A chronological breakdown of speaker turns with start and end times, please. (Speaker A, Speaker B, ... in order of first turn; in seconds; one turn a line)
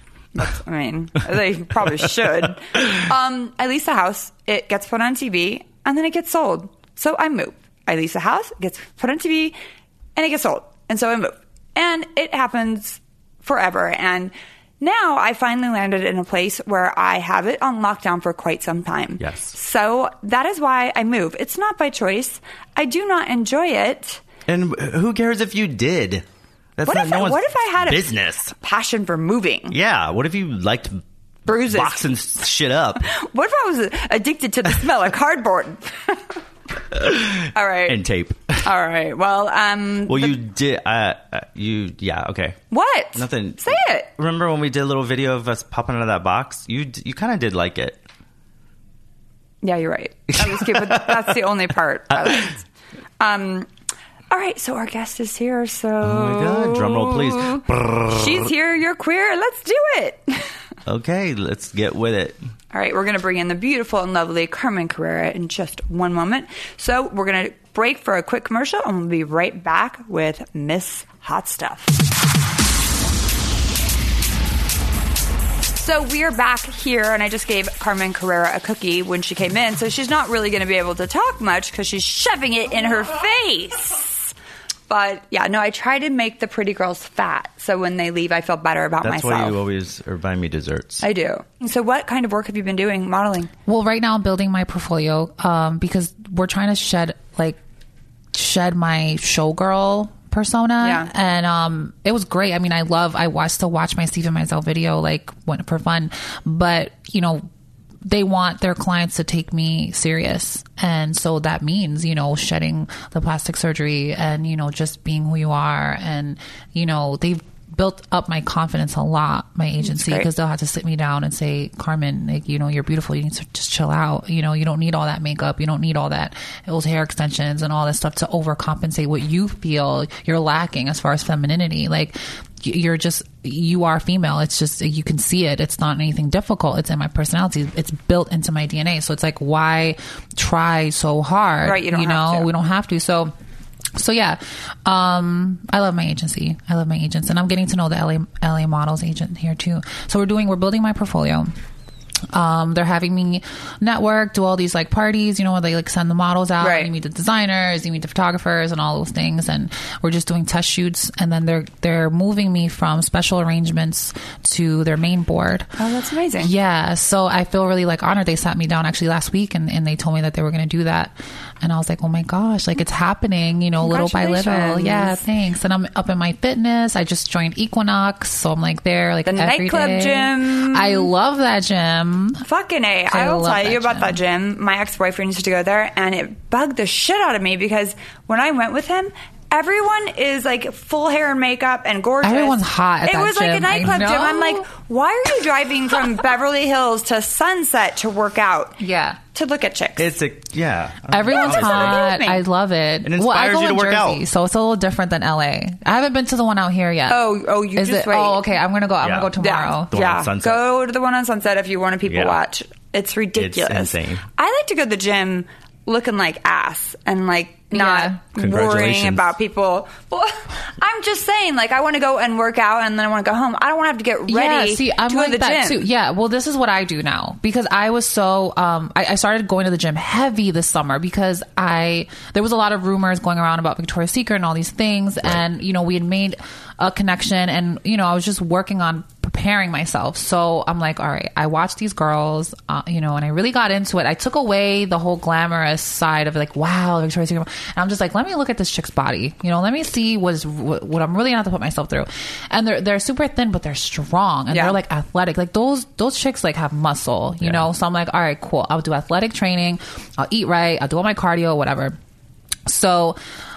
Speaker A: 0.3-9.6
Speaker A: 10.2-24.2
Speaker B: 19.2-19.6
Speaker B: 24.5-26.2
Speaker B: 26.8-28.5
Speaker A: 26.9-29.8
Speaker B: 29.7-33.1
Speaker A: 31.5-32.1
Speaker A: 33.0-36.4
Speaker B: 36.9-38.6
Speaker A: 37.5-38.0
Speaker A: 38.6-40.4
Speaker B: 40.1-42.6
Speaker A: 42.7-44.1
Speaker B: 43.1-48.0
Speaker A: 49.6-52.6
Speaker B: 50.4-51.3
Speaker B: 52.1-52.5
Speaker A: 53.2-53.7
Speaker A: 54.3-60.5
Speaker B: 56.0-58.5
Speaker B: 60.9-62.4
Speaker A: 62.7-71.9
Speaker A: 75.8-84.3
Speaker A: 84.9-89.6
Speaker B: 89.0-91.0
Speaker A: 91.0-93.5
Speaker C: 93.7-97.6
Speaker C: 98.3-107.5
Speaker A: 100.8-101.1
Speaker C: 108.0-143.3
Speaker A: 119.8-120.3
Speaker A: 141.6-142.5
Speaker C: 144.0-151.5
Speaker C: 152.3-165.7
Speaker A: 156.6-156.9
Speaker A: 165.8-166.5
Speaker C: 166.4-182.4
Speaker A: 173.8-175.2
Speaker A: 179.2-181.1
Speaker A: 182.4-198.8
Speaker C: 183.1-184.2
Speaker C: 192.2-194.7
Speaker C: 198.8-199.2
Speaker A: 199.3-200.1
Speaker B: 200.0-202.0
Speaker C: 201.1-207.2
Speaker A: 201.3-202.4
Speaker B: 203.0-204.2
Speaker A: 207.1-208.5
Speaker C: 207.8-209.9
Speaker B: 209.0-209.3
Speaker A: 209.4-225.8
Speaker B: 209.9-210.6
Speaker B: 212.1-212.4
Speaker B: 213.3-214.2
Speaker C: 217.7-218.2
Speaker B: 218.4-219.3
Speaker C: 224.3-262.0
Speaker A: 254.5-254.8
Speaker C: 262.7-263.2